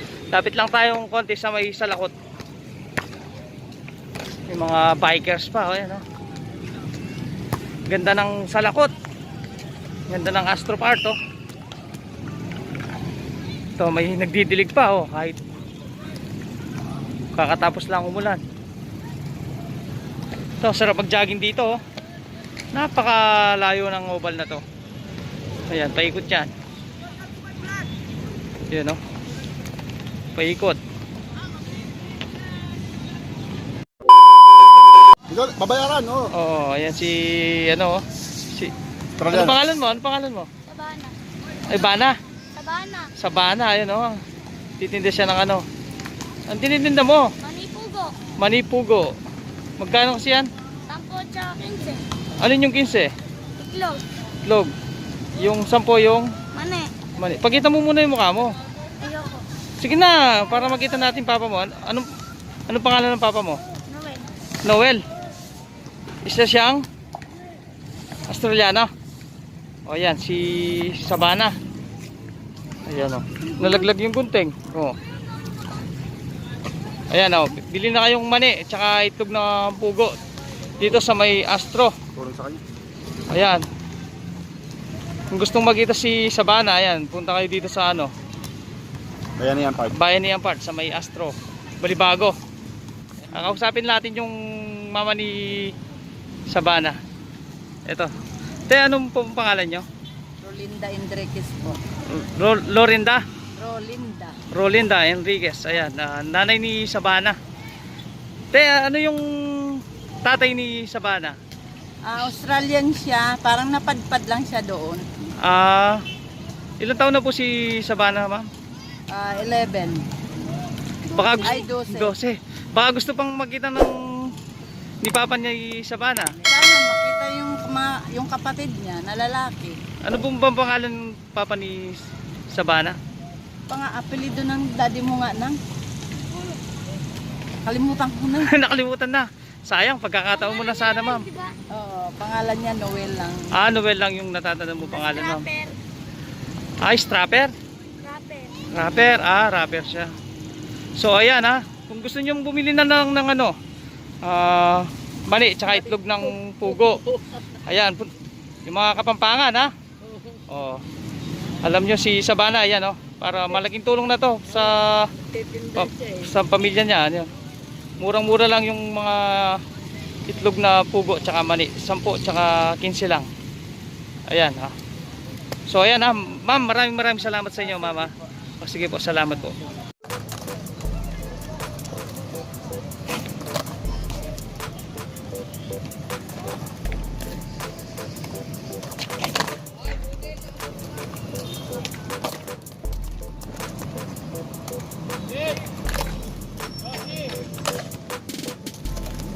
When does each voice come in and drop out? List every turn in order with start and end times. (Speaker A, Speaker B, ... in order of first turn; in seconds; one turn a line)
Speaker A: 0.3-2.1
Speaker A: 4.5-6.0
Speaker A: 7.9-8.9
Speaker A: 10.1-11.2
Speaker A: 13.8-15.4
Speaker A: 17.3-18.4
Speaker A: 20.6-21.8
Speaker A: 22.7-24.6
Speaker A: 25.7-26.5
Speaker A: 28.7-29.0
Speaker A: 30.3-30.8
Speaker B: 35.3-36.3
Speaker A: 36.3-40.5
Speaker B: 39.2-39.5
Speaker C: 40.6-41.1
Speaker A: 41.6-42.2
Speaker C: 42.5-43.1
Speaker A: 43.2-44.2
Speaker A: 44.8-45.6
Speaker A: 46.5-47.3
Speaker C: 47.4-48.2
Speaker A: 48.4-49.2
Speaker A: 49.8-50.5
Speaker C: 50.9-52.0
Speaker A: 52.4-53.1
Speaker C: 53.6-54.0
Speaker A: 54.4-54.7
Speaker A: 55.4-56.4
Speaker C: 56.5-56.9
Speaker A: 57.2-58.6
Speaker C: 59.0-59.5
Speaker A: 59.8-62.1
Speaker A: 62.7-63.6
Speaker C: 63.9-64.3
Speaker A: 64.6-65.0
Speaker A: 66.2-66.9
Speaker A: 68.3-68.9
Speaker A: 69.9-71.5
Speaker A: 72.9-75.0
Speaker A: 77.1-80.2
Speaker A: 80.8-82.0
Speaker B: 82.2-82.6
Speaker A: 83.3-83.7
Speaker A: 85.3-88.1
Speaker B: 89.4-89.9
Speaker A: 89.8-92.4
Speaker A: 93.3-95.7
Speaker A: 96.5-97.0
Speaker A: 97.9-98.1
Speaker A: 98.7-99.9
Speaker D: 100.4-101.8
Speaker A: 102.1-103.2
Speaker D: 103.6-104.4
Speaker A: 104.5-107.4
Speaker A: 108.5-111.4
Speaker D: 112.0-115.1
Speaker A: 115.4-116.0
Speaker A: 116.8-118.5
Speaker D: 119.1-120.0
Speaker A: 121.1-124.3
Speaker D: 121.4-122.2
Speaker A: 125.0-126.4
Speaker D: 126.4-129.8
Speaker A: 130.0-133.0
Speaker D: 133.7-135.6
Speaker D: 137.6-138.6
Speaker A: 138.4-141.3
Speaker C: 140.4-141.6
Speaker D: 141.7-143.5
Speaker A: 143.5-145.5
Speaker C: 145.0-145.8
Speaker A: 146.8-147.5
Speaker C: 148.0-148.6
Speaker A: 148.7-150.1
Speaker A: 151.0-153.6
Speaker A: 154.2-158.1
Speaker A: 158.7-159.7
Speaker A: 160.5-160.8
Speaker A: 161.6-167.3
Speaker A: 168.0-169.6
Speaker A: 170.3-173.3
Speaker A: 174.3-174.8
Speaker A: 175.7-179.6